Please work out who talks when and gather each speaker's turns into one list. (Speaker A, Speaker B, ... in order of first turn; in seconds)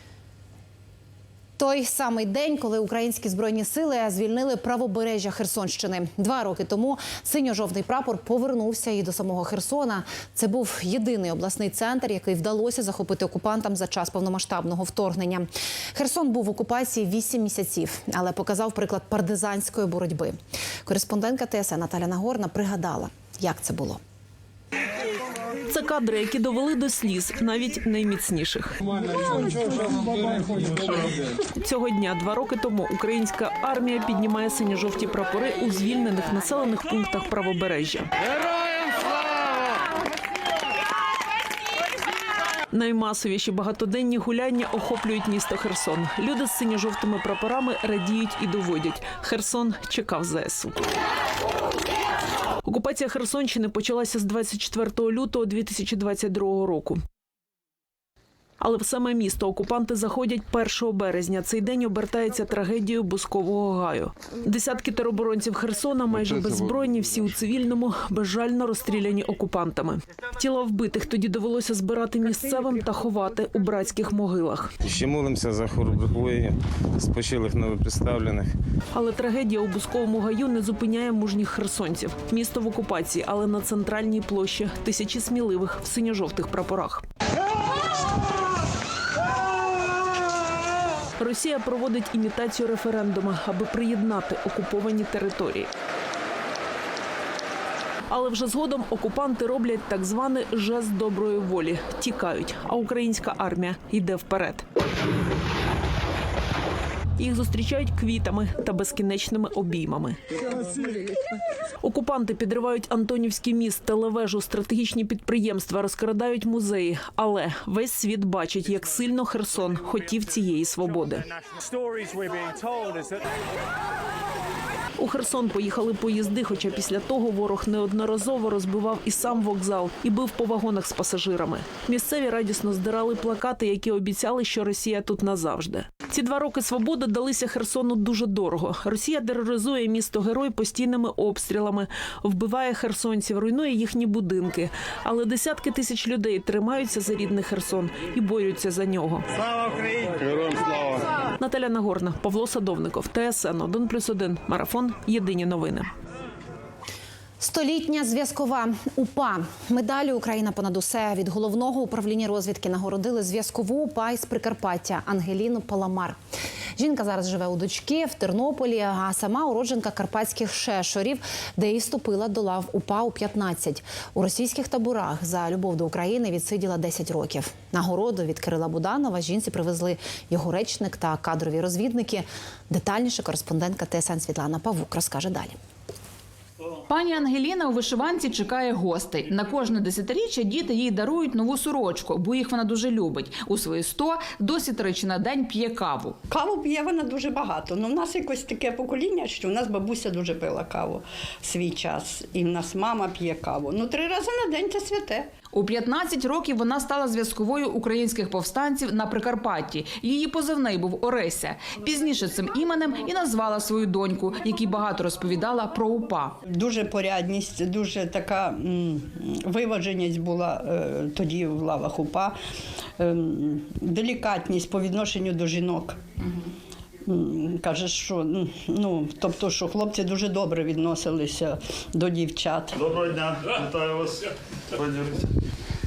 Speaker A: 1.6-24.0, 157.4-166.2, 166.8-185.6
Speaker B: 25.7-28.8, 31.5-38.1, 42.7-50.8, 52.6-57.0, 58.6-74.7, 78.9-87.0, 91.2-95.7, 98.1-104.7, 107.2-110.2, 111.8-121.3, 125.0-149.3, 151.4-155.9
Speaker C: 74.8-78.5
Speaker D: 186.9-196.2, 205.5-216.4
Speaker E: 196.3-205.3, 216.5-222.4, 223.0-226.0, 227.1-232.7
Speaker F: 232.8-235.3